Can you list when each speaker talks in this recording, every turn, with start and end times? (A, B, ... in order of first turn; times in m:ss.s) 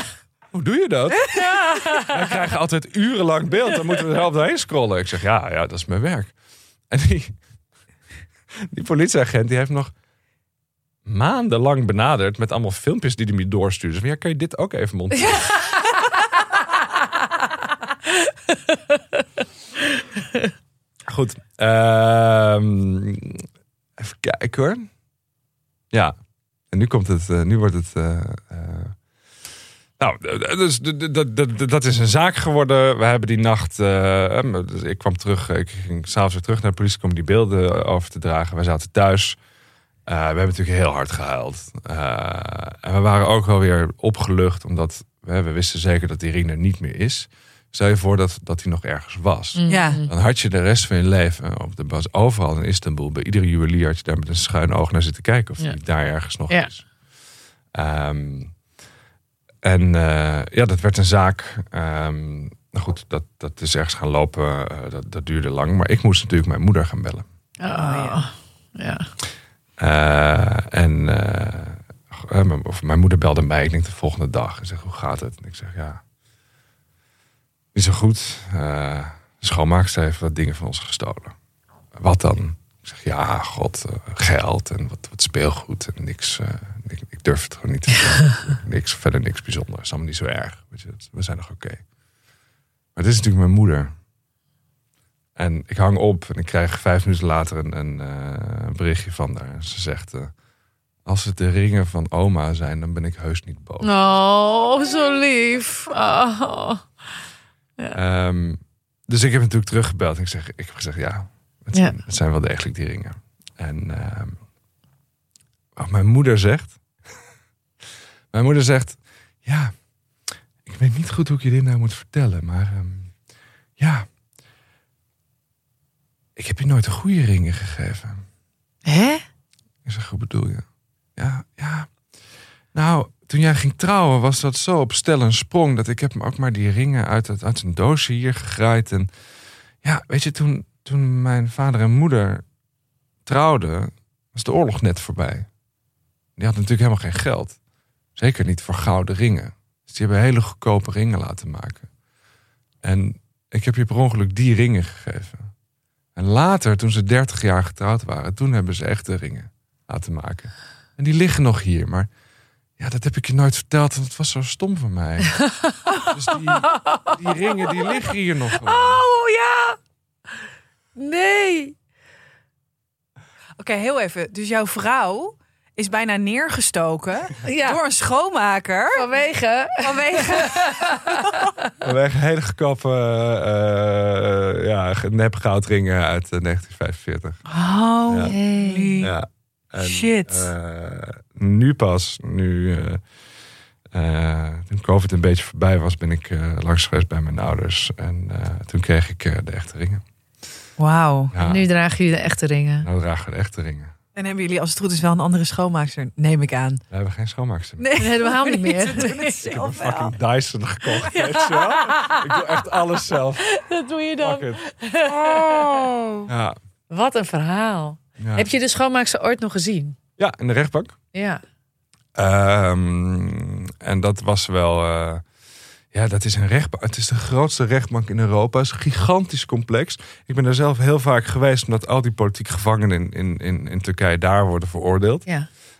0:00.5-0:06.3 A
0:01.4-0:02.1 B
0:06.9-0:07.4 A
0:08.7-0:09.9 A
0:11.0-0:15.5 A
0:21.1-0:23.5 A
0:24.0-0:24.9 A
0:26.7-0:29.0 A
0:30.0-0:39.4 A
0:40.0-0:56.9 A
0:49.5-0:50.1 B
0:49.7-0:50.0 C
0:57.7-0:58.5 A
0:59.6-1:07.2 A
1:07.6-1:09.1 B
1:07.7-1:08.2 C
1:09.8-1:16.0 A
1:17.7-1:21.4 A
1:21.9-1:31.8 A
1:32.9-1:33.9 A
1:35.4-1:40.3 A
1:41.0-1:43.9 A
1:43.8-1:46.8 B
1:47.9-1:54.4 A
1:55.8-1:56.8 A
1:58.3-1:59.7 A
2:00.6-2:03.1 A
2:03.8-2:04.1 A
2:06.4-2:08.2 A
2:08.8-2:09.2 B
2:09.8-2:10.6 A
2:11.2-2:11.9 A
2:12.7-2:19.1 A
2:19.8-2:22.4 A
2:23.2-2:25.5 A
2:26.4-2:27.6 A
2:28.2-2:31.9 A
2:32.8-2:35.5 A
2:36.1-2:42.1 A
2:42.8-2:45.4 A
2:46.1-2:49.0 A
2:46.6-2:47.2 B
2:48.6-2:49.8 B
2:50.9-2:51.7 B
2:53.6-2:59.1 C
2:57.4-2:57.8 B
2:58.9-3:01.7 B
2:59.8-3:01.5 C
3:01.8-3:07.4 A
3:07.5-3:09.1 C
3:08.1-3:08.4 A
3:08.2-3:09.0 B
3:09.0-3:13.0 A
3:09.8-3:10.5 C
3:13.9-3:20.0 A
3:20.8-3:21.3 C
3:21.3-3:21.7 A
3:21.4-3:22.9 B
3:22.8-3:23.9 A
3:24.1-3:26.8 C
3:26.9-3:27.9 A
3:27.8-3:30.1 C
3:28.0-3:29.4 B
3:29.4-3:33.5 A
3:31.1-3:32.3 B
3:33.5-3:36.2 B
3:34.2-3:34.6 A
3:35.2-3:36.0 C
3:36.3-3:36.6 A
3:36.9-3:40.0 B
3:38.2-3:38.5 A
3:40.2-3:41.0 A
3:41.1-3:41.4 B
3:42.2-3:45.2 A
3:45.9-3:55.3 A